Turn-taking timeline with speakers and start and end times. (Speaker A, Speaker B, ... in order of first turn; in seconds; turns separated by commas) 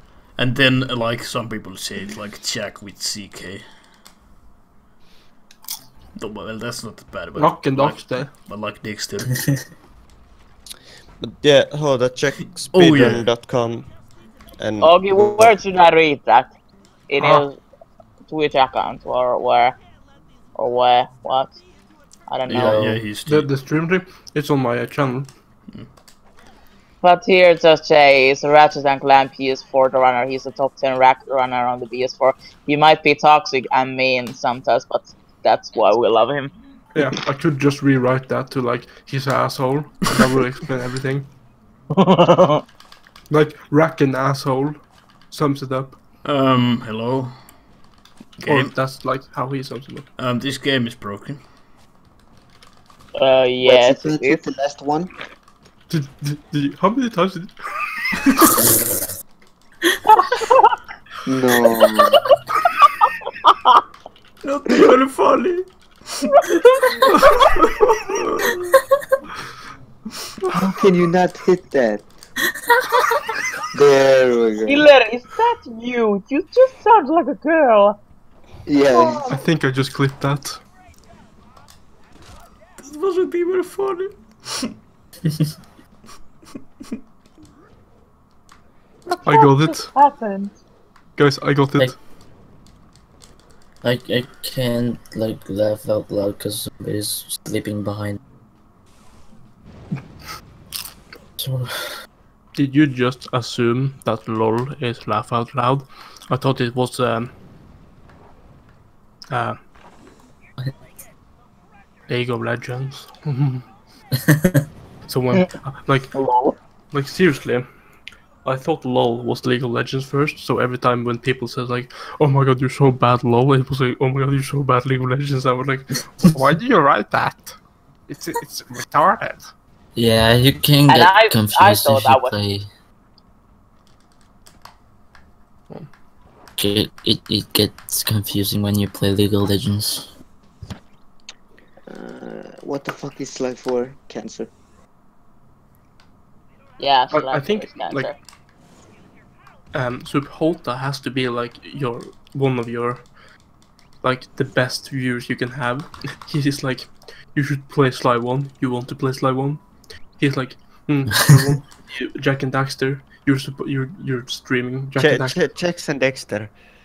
Speaker A: 0.4-3.7, Speaker A: 6.2-9.7, Speaker B: 7.4-8.3, Speaker C: 11.2-13.9, Speaker A: 12.7-13.3, Speaker C: 14.6-15.6, Speaker D: 14.8-16.6, Speaker D: 17.1-17.6, Speaker B: 17.2-17.4, Speaker D: 18.3-19.8, Speaker D: 20.6-21.6, Speaker D: 22.3-23.0, Speaker A: 22.4-23.5, Speaker B: 23.2-25.3, Speaker D: 27.0-36.5, Speaker B: 36.9-41.3, Speaker D: 41.9-42.6, Speaker B: 43.3-46.0, Speaker A: 46.2-47.5, Speaker A: 48.4-48.8, Speaker B: 48.5-50.1, Speaker A: 50.2-51.4, Speaker D: 53.1-54.4, Speaker E: 53.6-55.1, Speaker B: 55.9-57.9, Speaker D: 60.1-60.7, Speaker E: 61.3-62.2, Speaker A: 64.4-66.4, Speaker D: 66.5-67.0, Speaker A: 67.2-68.6, Speaker B: 70.5-70.7, Speaker E: 70.6-72.1, Speaker E: 73.7-74.9, Speaker D: 74.6-78.0, Speaker E: 78.7-79.3, Speaker D: 78.9-79.4, Speaker B: 79.3-80.6, Speaker A: 82.8-84.7, Speaker D: 89.1-90.5, Speaker B: 89.2-89.9, Speaker B: 91.2-92.0, Speaker F: 93.8-98.2, Speaker F: 101.4-101.9, Speaker B: 102.5-107.3, Speaker B: 109.3-109.6, Speaker B: 112.1-113.7, Speaker B: 115.1-116.1, Speaker D: 116.1-116.6, Speaker B: 116.9-117.8, Speaker B: 118.4-129.5, Speaker F: 129.9-132.7, Speaker D: 130.9-132.4, Speaker F: 136.6-140.1, Speaker E: 141.9-144.5, Speaker D: 146.8-148.2, Speaker B: 147.1-148.1, Speaker B: 149.7-153.1, Speaker B: 154.0-165.4, Speaker C: 165.0-166.5